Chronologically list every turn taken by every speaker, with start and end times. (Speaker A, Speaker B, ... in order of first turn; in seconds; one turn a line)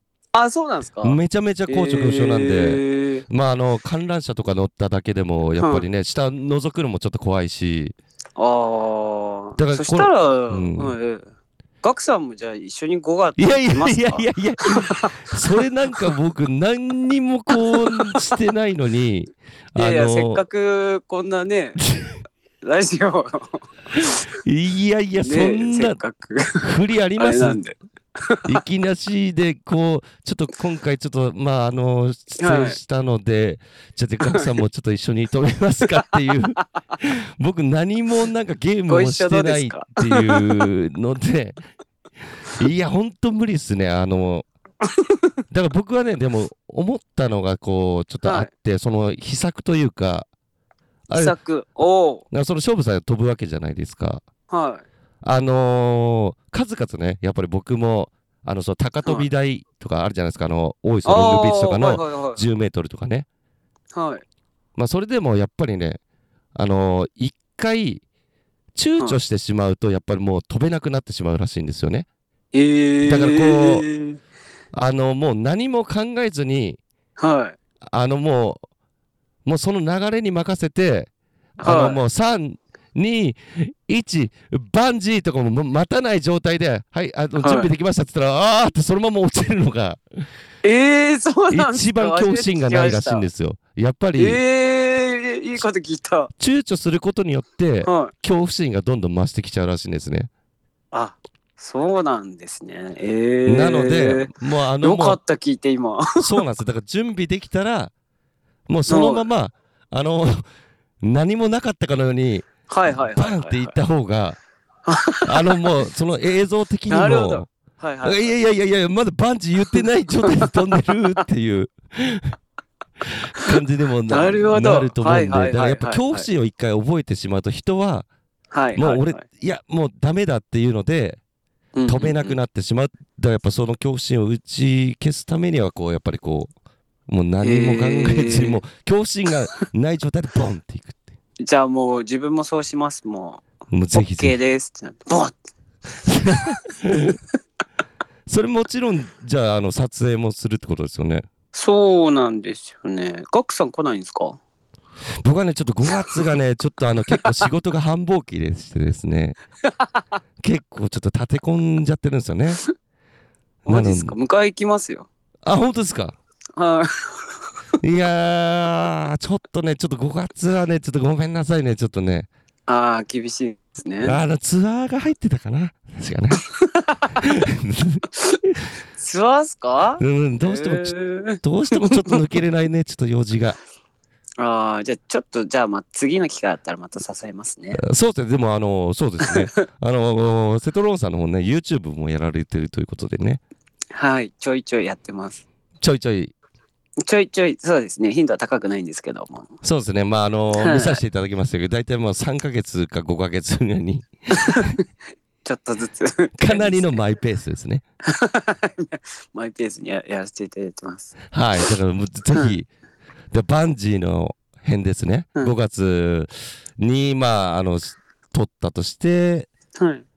Speaker A: 0.3-3.2
Speaker B: 1.0-7.9
Speaker A: 5.6-5.8
Speaker A: 8.3-11.3
Speaker B: 9.6-10.9
Speaker A: 11.8-15.2
Speaker B: 13.4-20.4
Speaker A: 17.6-18.2
Speaker A: 19.8-21.8
Speaker B: 21.9-22.2
Speaker A: 22.6-23.6
Speaker B: 23.9-26.0
Speaker A: 25.2-28.6
Speaker B: 26.6-27.6
Speaker B: 28.5-41.6
Speaker A: 32.4-32.8
Speaker A: 38.9-40.6
Speaker B: 42.5-44.5
Speaker A: 44.9-45.2
Speaker B: 45.5-50.2
Speaker A: 48.2-48.5
Speaker B: 51.1-51.3
Speaker A: 51.1-52.2
Speaker B: 52.3-54.2
Speaker A: 54.5-54.8
Speaker B: 55.2-63.2
Speaker A: 61.0-62.4
Speaker A: 63.9-64.2
Speaker B: 64.8-66.0
Speaker B: 66.5-68.0
Speaker B: 68.7-72.1
Speaker A: 72.5-74.2
Speaker B: 73.0-73.8
Speaker B: 74.7-76.8
Speaker A: 77.2-77.5
Speaker B: 77.9-78.6
Speaker B: 79.5-81.1
Speaker A: 81.6-82.0
Speaker B: 81.6-90.0
Speaker A: 87.4-87.7
Speaker A: 90.6-93.2
Speaker B: 91.5-94.4
Speaker A: 94.2-96.3
Speaker B: 96.4-100.3
Speaker A: 97.8-98.1
Speaker A: 100.9-106.4
Speaker B: 103.5-105.2
Speaker B: 106.2-107.9
Speaker B: 108.7-110.4
Speaker A: 108.9-109.2
Speaker B: 111.0-114.4
Speaker A: 112.7-113.7
Speaker A: 114.9-115.6
Speaker B: 115.2-117.5
Speaker A: 116.9-118.3
Speaker B: 118.0-122.4
Speaker B: 123.0-128.1
Speaker A: 124.1-126.3
Speaker A: 128.5-129.2
Speaker B: 128.8-131.2
Speaker A: 131.8-132.3
Speaker B: 131.9-136.5
Speaker B: 137.1-141.1
Speaker A: 137.4-138.6
Speaker A: 141.4-143.4
Speaker B: 143.7-144.3
Speaker A: 143.9-145.4
Speaker B: 146.1-147.2
Speaker B: 148.3-151.2
Speaker A: 151.5-154.4
Speaker B: 155.2-159.4
Speaker B: 160.4-162.6
Speaker B: 163.6-164.2
Speaker A: 163.7-165.1
Speaker B: 165.4-166.2
Speaker A: 166.6-167.5
Speaker B: 167.8-172.3
Speaker A: 172.7-174.2
Speaker B: 174.0-176.4
Speaker A: 176.7-177.1
Speaker B: 177.2-178.7
Speaker A: 179.0-182.2
Speaker B: 180.0-183.6
Speaker A: 184.4-187.8
Speaker B: 187.7-193.4
Speaker A: 189.2-189.6
Speaker A: 193.9-195.4
Speaker B: 195.8-196.3
Speaker A: 197.1-199.5
Speaker B: 199.6-204.7
Speaker A: 200.5-201.0
Speaker A: 204.3-204.6
Speaker A: 205.4-207.0
Speaker B: 206.4-207.8
Speaker A: 208.1-211.1
Speaker B: 211.3-212.7
Speaker B: 213.3-219.5
Speaker A: 219.8-220.0